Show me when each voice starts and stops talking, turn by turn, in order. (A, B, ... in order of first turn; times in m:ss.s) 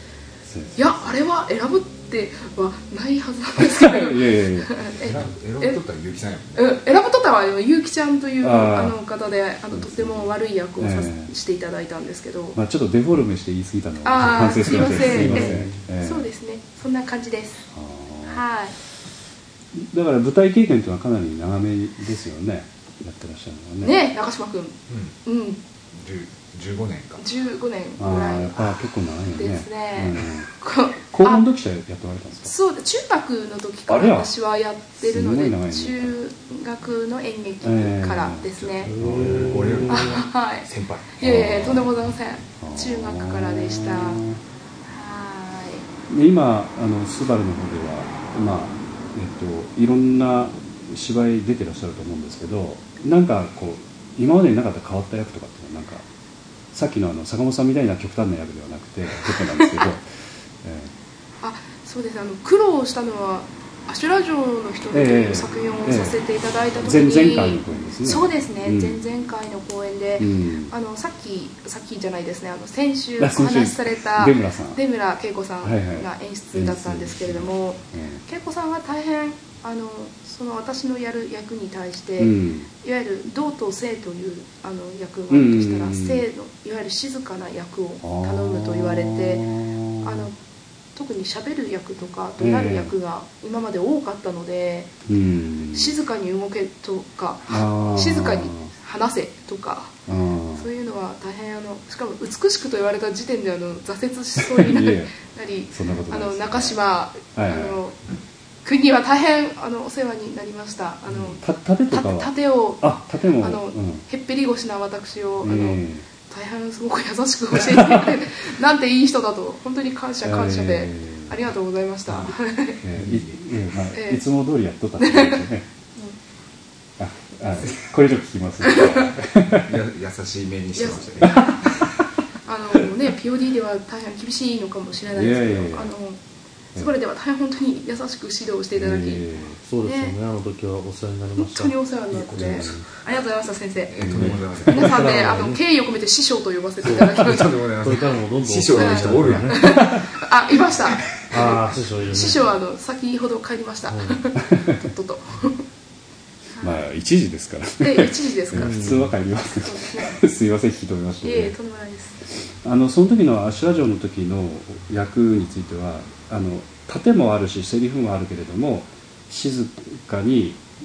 0:00.4-0:01.1 A
0:00.8-0:05.8 B
0:03.6-0:04.7 A
0:04.9-0:06.7 C
0:06.6-0:12.6 B
0:08.4-0:09.0 A
0:09.7-0:11.3 A
0:12.6-0:16.3 A
0:14.0-0:17.6 B
0:14.2-0:15.9 D
0:17.7-0:18.5 A
0:18.2-0:18.8 B
0:19.7-0:24.0 A
0:23.8-0:25.6 B
0:24.9-0:25.2 C
0:25.9-0:27.2 C
0:27.2-0:28.8 B
0:28.0-0:30.5 A
0:29.4-0:31.5 B
0:31.1-0:32.5 A
0:32.4-0:39.0 B
0:33.9-0:34.3 A
0:35.0-0:36.2 A
0:37.6-0:40.0 A
0:38.6-0:41.2 C
0:38.8-0:40.2 D
0:39.9-0:44.2 B
0:41.2-0:41.9 A
0:42.6-0:44.4 A
0:44.9-0:45.9 B
0:46.1-0:56.0 A
0:56.7-1:00.0 A
0:59.2-0:59.9 B
1:00.6-1:00.9 A
1:01.4-1:30.4 B
1:04.9-1:06.2 A
1:06.8-1:09.0 A
1:10.2-1:10.7 A
1:13.2-1:14.8 A
1:15.6-1:18.2 A
1:22.2-1:22.7 A
1:25.3-1:26.2 A
1:28.0-1:30.3 A
1:31.0-1:34.9 B
1:32.4-1:32.9 A
1:35.1-1:36.0 A
1:35.7-1:39.9 B
1:37.5-1:38.7 A
1:40.1-1:40.7 A
1:40.5-1:48.0 B
1:44.4-1:45.2 A
1:45.7-1:46.8 A
1:47.3-1:47.8 A
1:48.6-2:02.8 B
1:51.1-1:54.0 A
1:55.4-1:56.1 A
1:57.5-1:58.2 A
2:00.2-2:01.4 A
2:02.1-2:05.7 A
2:03.0-2:03.4 C
2:03.9-2:04.2 B
2:05.0-2:06.2 B
2:07.0-2:09.7 A
2:08.6-2:09.1 B
2:09.6-2:11.9 C
2:10.8-2:11.6 B
2:12.4-2:16.2 B
2:15.1-2:15.9 A
2:16.8-2:19.3 B
2:18.8-2:19.6 A
2:19.6-2:22.8 D
2:19.8-2:20.2 B
2:21.4-2:27.6 B
2:22.3-2:22.8 A
2:23.9-2:25.2 C
2:24.0-2:24.4 A
2:24.1-2:25.6 D
2:26.8-2:29.6 D
2:27.0-2:29.8 C
2:28.7-2:35.6 B
2:30.9-2:31.6 C
2:31.3-2:32.4 D
2:33.9-2:34.2 D
2:36.6-2:36.9 B
2:36.6-2:41.6 A
2:37.8-2:38.9 B
2:38.5-2:39.2 D
2:39.4-2:40.2 B
2:41.2-2:42.2 B
2:42.6-2:50.6 A